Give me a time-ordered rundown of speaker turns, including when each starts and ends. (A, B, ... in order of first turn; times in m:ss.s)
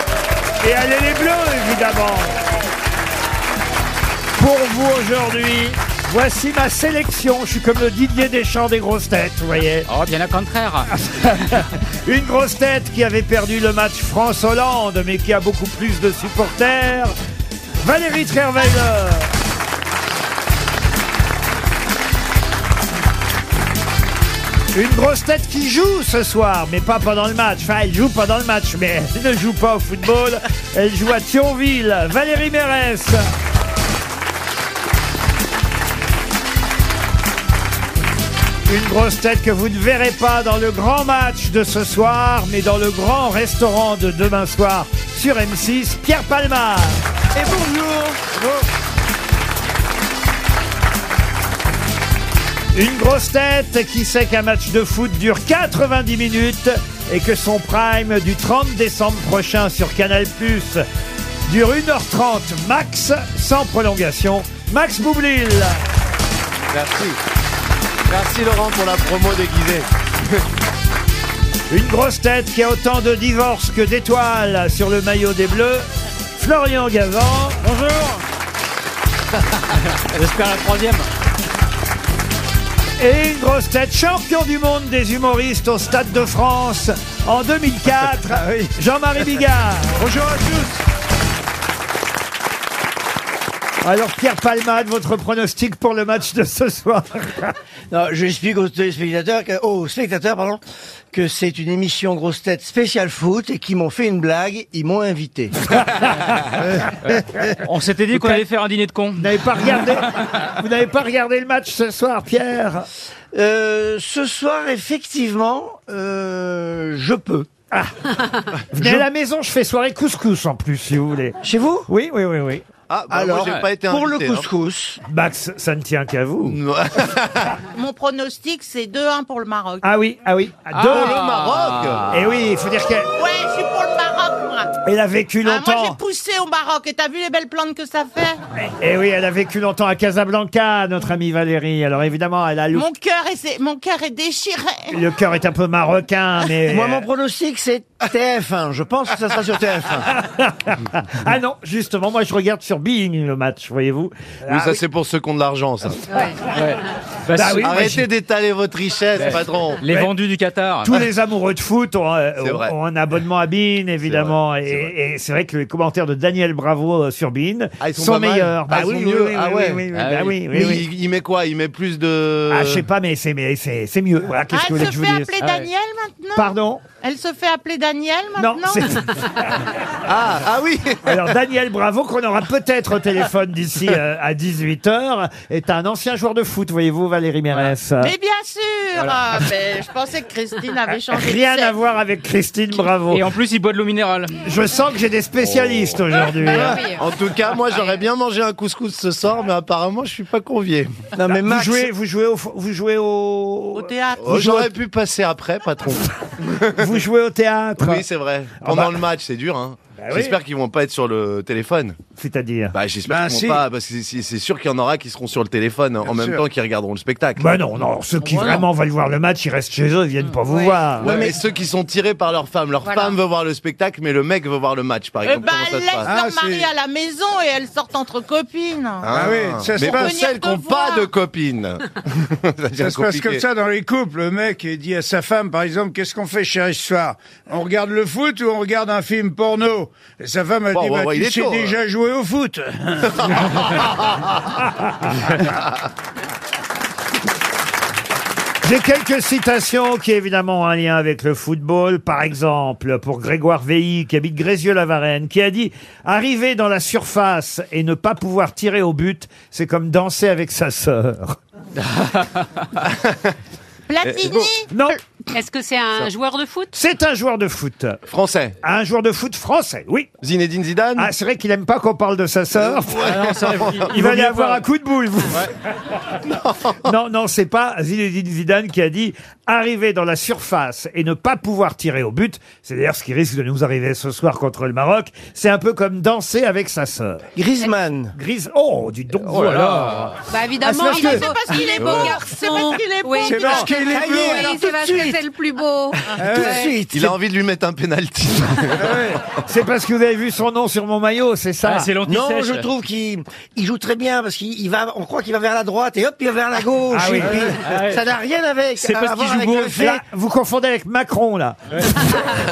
0:00.6-0:02.4 A
0:04.4-0:09.9 A
0:09.9-0:10.9 B
0:11.0-0:17.1 A
0:17.8-0:19.3 A
0:24.7-0:33.2 A
0:38.7-0:47.0 A
0:47.4-0:48.3 C
0:52.7-1:00.8 A
1:01.4-1:05.8 A
1:06.7-1:07.2 D
1:08.1-1:09.9 D
1:11.7-1:17.6 A
1:17.6-1:18.2 B
1:19.9-1:21.1 B
1:23.0-1:30.0 A
1:28.4-1:28.7 C
1:30.0-1:30.8 E
1:33.8-1:37.5 A
1:37.9-1:40.6 C
1:41.1-1:45.8 C
1:46.2-1:47.5 A
1:47.6-1:49.9 B
1:48.1-1:48.4 A
1:49.2-1:52.8 A
1:53.3-1:57.5 C
1:57.7-1:58.0 A
1:58.7-2:02.6 A
2:01.4-2:01.9 C
2:02.9-2:04.5 D
2:03.1-2:05.0 C
2:05.1-2:06.6 A
2:06.4-2:07.6 D
2:07.7-2:09.8 F
2:09.8-2:11.2 A
2:10.7-2:12.0 B
2:10.9-2:12.3 D
2:12.1-2:13.1 A
2:13.1-2:14.7 F
2:14.8-2:16.0 A
2:15.4-2:18.4 F
2:18.6-2:22.8 A
2:22.7-2:24.9 F
2:24.9-2:27.1 A
2:26.7-2:30.1 C
2:30.1-2:34.8 A
2:34.5-2:36.3 D
2:36.5-2:37.8 B
2:37.3-2:38.0 A
2:37.6-2:39.8 D
2:39.2-2:41.0 B
2:40.8-2:50.8 A
2:42.4-2:42.7 D
2:44.0-2:44.9 D
2:47.8-2:49.8 D
2:49.9-2:50.4 B
2:50.4-2:52.8 D
2:52.5-2:55.3 A
2:54.5-2:59.0 F
2:56.4-2:56.8 A
2:58.4-2:59.3 A
3:00.0-3:01.3 D
3:01.0-3:08.1 A
3:08.0-3:11.8 F
3:11.2-3:13.2 A
3:13.0-3:14.4 B
3:14.4-3:16.8 A
3:15.4-3:21.0 D
3:16.6-3:17.0 G
3:21.1-3:21.9 C
3:21.4-3:24.7 A
3:23.7-3:24.3 F
3:24.2-3:27.0 D
3:26.7-3:28.0 A
3:27.8-3:32.0 D
3:28.6-3:29.0 A
3:30.0-3:30.4 A
3:32.2-3:32.7 A
3:32.7-3:37.5 D
3:33.1-3:33.6 E
3:36.0-3:36.4 E
3:37.4-3:41.2 A
3:41.0-3:46.1 D
3:41.0-3:41.3 C
3:42.8-3:43.1 G
3:45.2-3:49.1 F
3:46.0-3:46.7 E
3:49.0-3:53.4 D
3:49.1-3:50.1 E
3:49.8-3:51.1 F
3:52.8-4:03.2 E
4:00.7-4:01.8 D
4:03.2-4:04.2 D
4:08.6-4:21.4 A
4:22.7-4:23.3 D
4:23.9-4:25.0 F
4:24.0-4:24.5 D
4:24.7-4:25.0 A
4:25.3-4:26.7 G
4:26.7-4:28.0 A
4:28.1-4:28.6 D
4:28.6-4:30.1 A
4:30.2-4:31.1 D
4:31.0-4:33.2 A
4:32.7-4:34.0 D
4:33.2-4:34.6 B
4:33.8-4:35.5 A
4:36.2-4:36.9 D
4:36.8-4:47.2 A
4:47.4-4:48.1 C
4:48.1-4:50.2 A
4:49.2-4:50.2 B
4:50.3-4:53.4 G
4:50.6-4:54.1 F
4:50.8-4:51.2 A
4:51.8-4:52.2 D
4:53.2-4:54.5 E
4:53.5-4:55.3 C
4:54.3-4:56.7 G
4:56.1-4:57.2 C
4:56.2-4:56.7 E
4:56.9-4:58.9 D
4:58.8-4:59.2 E
4:59.3-5:01.9 A
5:01.6-5:02.7 B
5:02.0-5:10.0 C
5:06.9-5:07.5 A
5:07.6-5:08.0 B
5:08.8-5:09.7 B
5:09.8-5:12.1 A